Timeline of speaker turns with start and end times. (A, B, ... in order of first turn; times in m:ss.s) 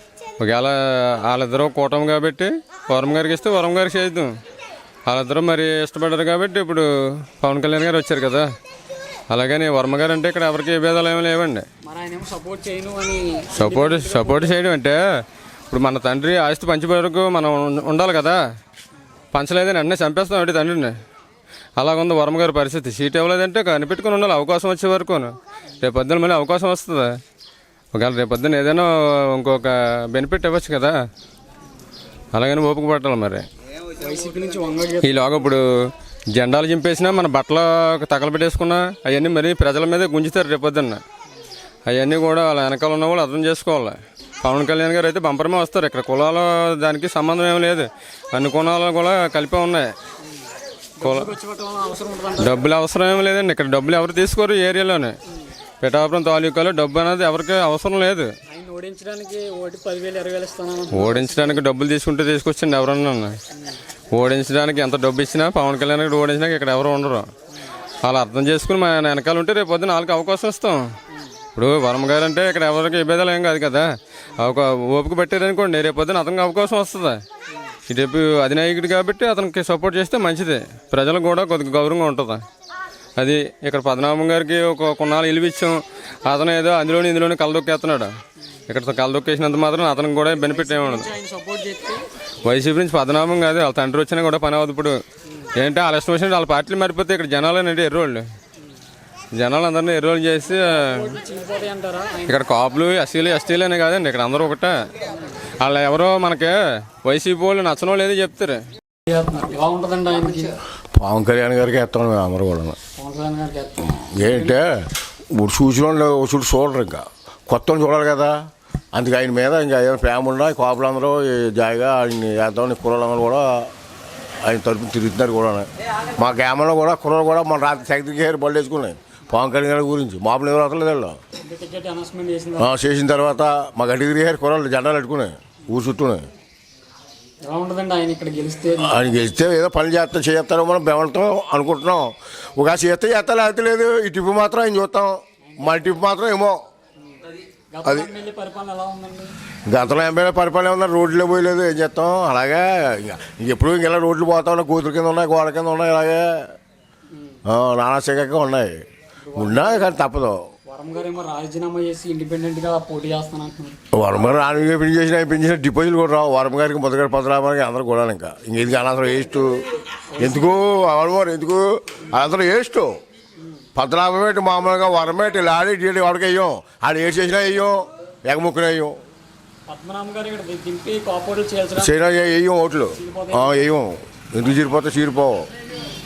0:00.4-0:04.3 A
0:05.1-0:08.5 A
0:09.3-0:11.7 A
0:11.8-0:14.6 B
0:13.6-0:15.0 A
0:15.7-0:18.4 A
0:19.3-0:21.0 A
0:21.8-0:27.1 A
0:27.9-0:31.0 A
0:32.3-0:33.5 A
0:33.9-0:35.5 B
0:35.0-0:41.0 A
0:41.9-0:49.9 A
0:51.0-0:52.6 B
0:51.0-0:51.4 A
0:52.4-0:55.2 A
0:55.8-0:58.3 A
0:58.5-1:01.6 B
1:00.9-1:03.4 A
1:04.1-1:07.3 A
1:08.0-1:10.8 A
1:11.6-1:17.2 A
1:17.9-1:22.4 A
1:23.2-1:28.1 A
1:28.7-1:31.1 A
1:30.3-1:32.0 B
1:32.4-1:35.0 A
1:35.6-1:38.2 A
1:39.4-1:41.2 A
1:40.4-1:42.4 B
1:42.3-1:44.8 A
1:45.6-1:48.6 A
1:49.1-1:50.6 B
1:51.0-1:52.8 C
1:53.0-1:54.6 B
1:54.1-1:58.4 C
1:58.9-2:03.7 C
2:04.4-2:11.2 C
2:11.4-2:12.7 B
2:12.6-2:16.2 C
2:17.4-2:19.1 B
2:18.8-2:26.6 C
2:25.4-2:25.9 B
2:27.7-2:29.3 B
2:27.8-2:28.1 C
2:29.7-2:36.5 C
2:37.1-2:37.4 B
2:37.5-2:38.8 C
2:39.2-2:40.0 B
2:39.4-2:40.5 C
2:40.7-2:43.8 B
2:43.9-2:49.6 C
2:50.2-2:50.6 B
2:50.2-2:52.9 C
2:53.8-2:59.0 C
2:59.7-3:01.9 B
3:01.8-3:05.5 C
3:03.0-3:03.6 B